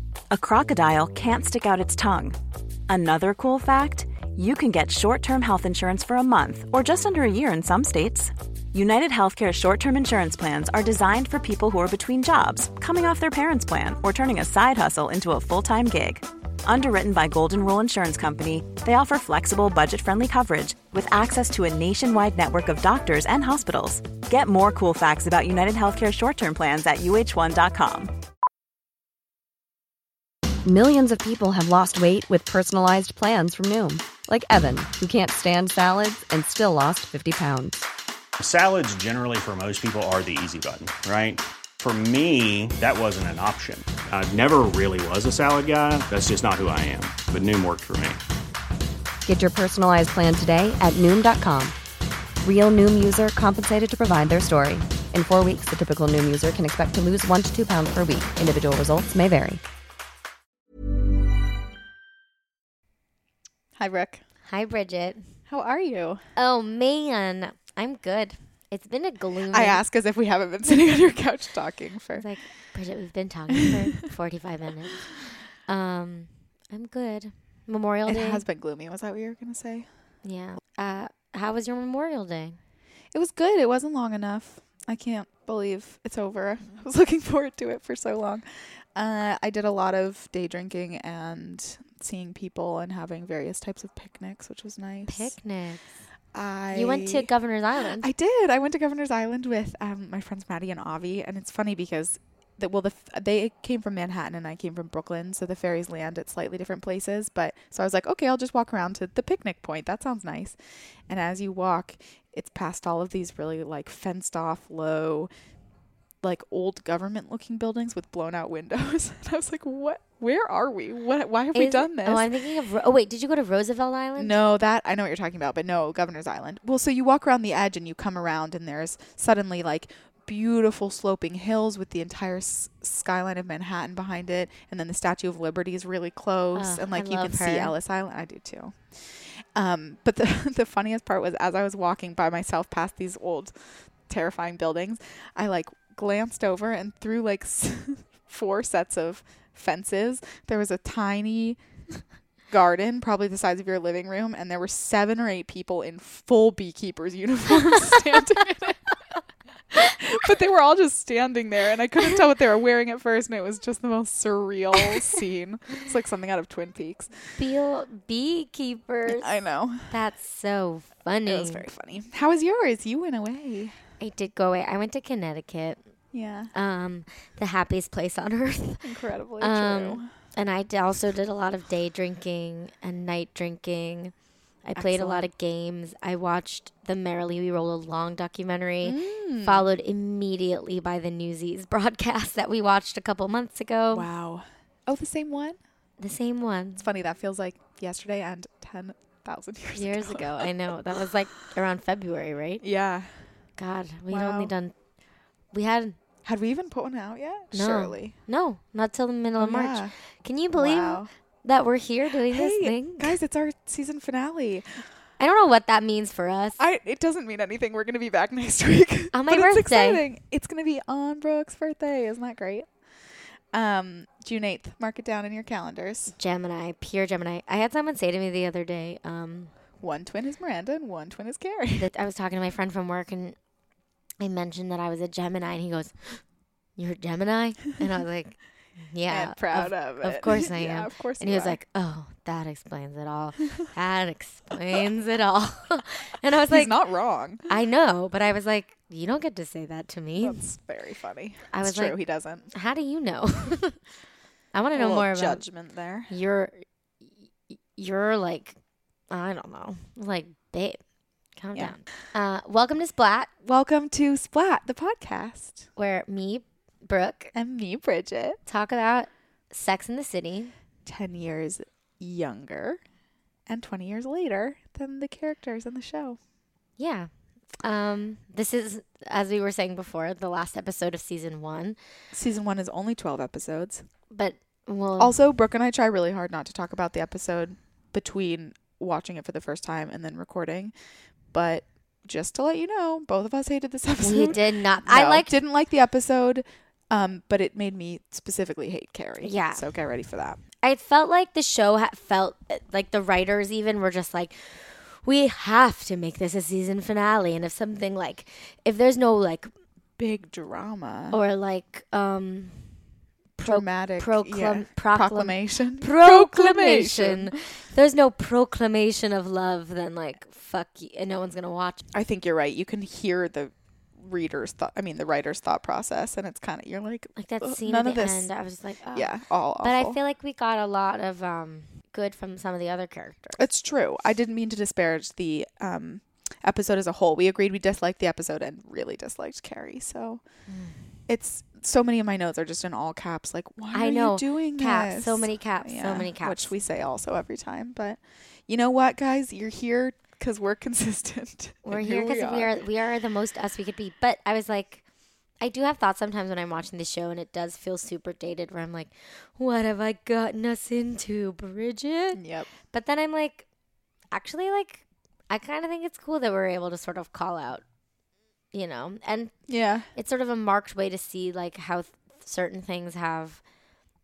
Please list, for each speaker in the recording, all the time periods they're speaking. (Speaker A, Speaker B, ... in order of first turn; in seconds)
Speaker A: 0.3-2.4, 2.9-28.1
Speaker B: 30.6-37.8, 49.3-51.8, 52.4-59.6
Speaker C: 38.4-48.2
Speaker D: 63.8-64.2, 65.5-66.2, 69.5-72.3, 78.1-79.9, 83.1-95.4, 96.3-97.3, 98.0-110.6, 111.1-115.3, 116.2-122.3, 124.2-143.5, 144.1-151.6, 152.5-158.9, 159.7-167.4, 169.1-169.9, 171.2-173.8, 176.1-176.5, 178.8-180.1, 184.8-185.3, 188.8-189.7, 193.9-195.6, 196.8-201.1, 202.6-203.1, 204.1-204.5, 206.2-208.2, 209.4-209.9, 210.5-211.1, 212.2-214.8, 216.6-222.7, 223.5-226.2, 229.8-231.9, 239.1-241.6, 246.5-247.5, 250.2-252.5, 254.7-256.1, 263.4-265.7, 267.3-268.4, 270.9-272.8, 273.5-276.2, 282.1-283.9, 285.0-290.7, 291.3-300.4, 310.0-311.2, 313.4-317.4, 321.9-328.3, 328.9-330.0, 333.4-340.2, 341.1-352.7, 362.1-362.5, 369.5-369.9
Speaker E: 64.5-65.3, 66.4-69.8, 72.2-75.0, 75.7-78.4, 80.2-82.6, 95.1-95.9, 96.7-98.1, 121.5-124.4, 136.6-137.8, 167.4-169.3, 169.9-171.7, 174.0-175.8, 176.5-178.8, 179.4-184.1, 184.6-194.1, 196.0-196.9, 199.8-202.6, 203.6-204.7, 205.5-206.0, 207.5-213.2, 215.2-216.6, 219.1-220.1, 226.2-229.5, 231.8-233.4, 234.2-236.2, 236.8-246.8, 247.5-250.4, 251.5-252.0, 252.5-253.8, 254.5-255.4, 256.1-256.6, 257.5-258.6, 259.1-260.8, 261.4-263.3, 265.8-267.3, 268.5-270.5, 276.8-281.8, 284.1-285.2, 294.0-295.4, 299.2-299.6, 300.6-309.5, 311.1-312.7, 313.4-321.8, 327.2-333.5, 340.5-340.8, 343.7-346.5, 351.7-354.8, 355.4-363.5, 364.1-367.6, 368.5-369.4, 369.9-373.4